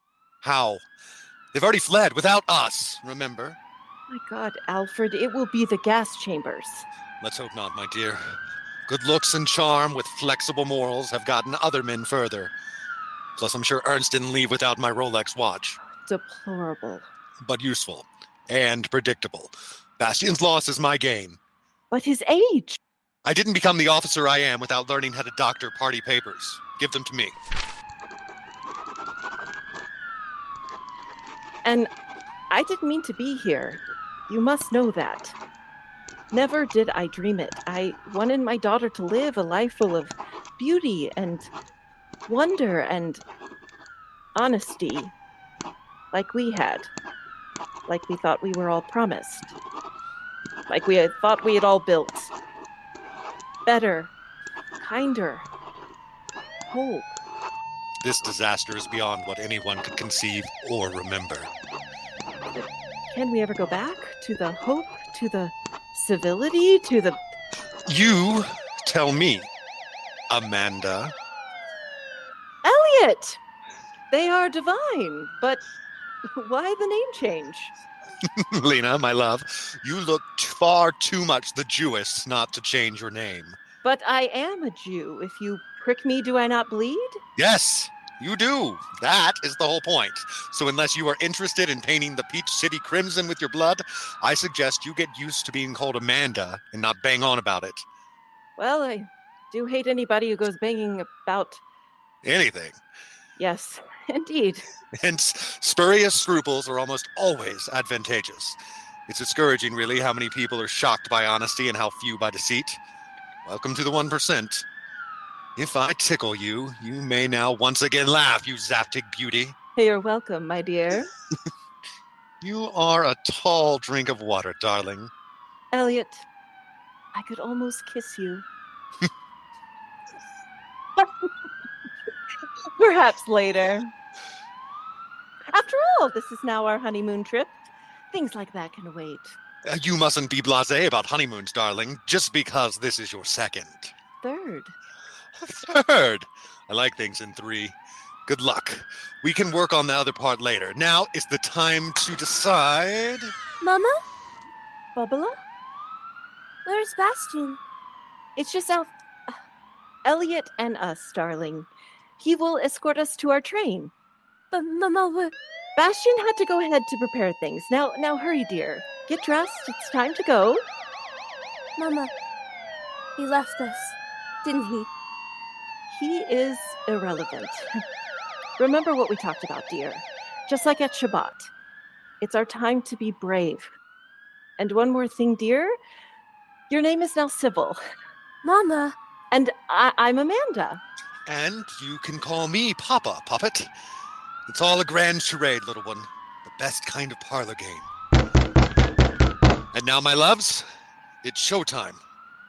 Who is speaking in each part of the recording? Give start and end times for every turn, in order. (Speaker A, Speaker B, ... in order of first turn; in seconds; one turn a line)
Speaker A: 0.4-0.8
Speaker A: 1.5-3.6
Speaker B: 4.1-6.9
Speaker A: 7.2-8.2
Speaker A: 8.9-12.5
Speaker A: 13.4-15.8
Speaker B: 16.0-17.1
Speaker A: 17.4-21.4
Speaker B: 21.9-22.8
Speaker A: 23.2-27.4
Speaker B: 31.6-31.9
Speaker B: 32.5-35.4
Speaker B: 36.3-41.5
Speaker B: 42.3-43.2
Speaker B: 44.4-45.1
Speaker B: 46.1-46.9
Speaker B: 47.9-49.5
Speaker B: 50.7-52.3
Speaker B: 53.7-54.1
Speaker B: 54.8-55.5
Speaker B: 56.7-57.2
Speaker A: 58.0-61.5
Speaker B: 62.6-67.2
Speaker A: 67.9-69.5
Speaker A: 70.3-71.1
Speaker B: 72.6-73.4
Speaker B: 74.1-75.6
Speaker B: 76.4-77.7
Speaker A: 78.4-83.6
Speaker B: 83.8-87.2
Speaker A: 87.4-97.9
Speaker B: 98.6-101.6
Speaker A: 102.2-102.8
Speaker B: 103.4-104.6
Speaker A: 105.0-112.8
Speaker A: 113.5-114.7
Speaker A: 115.6-119.5
Speaker B: 119.8-121.1
Speaker A: 122.4-125.1
Speaker B: 125.7-126.3
Speaker B: 127.1-128.4
Speaker B: 132.8-133.9
Speaker B: 135.5-137.5
Speaker B: 138.1-139.4
Speaker A: 139.7-143.9
Speaker B: 144.2-144.7
Speaker A: 145.4-153.3
Speaker C: 153.6-153.9
Speaker B: 155.0-155.3
Speaker C: 156.7-157.6
Speaker B: 158.4-159.3
Speaker B: 160.1-161.7
Speaker B: 162.2-163.9
Speaker C: 164.5-165.3
Speaker B: 165.8-170.6
Speaker C: 171.8-172.1
Speaker C: 173.2-174.9
Speaker B: 175.9-177.8
Speaker B: 178.6-181.5
Speaker B: 182.2-183.7
Speaker B: 184.6-185.7
Speaker B: 186.7-187.8
Speaker C: 188.4-188.9
Speaker B: 189.3-190.8
Speaker A: 191.3-193.7
Speaker A: 194.5-197.9
Speaker A: 199.7-200.7
Speaker A: 201.2-202.0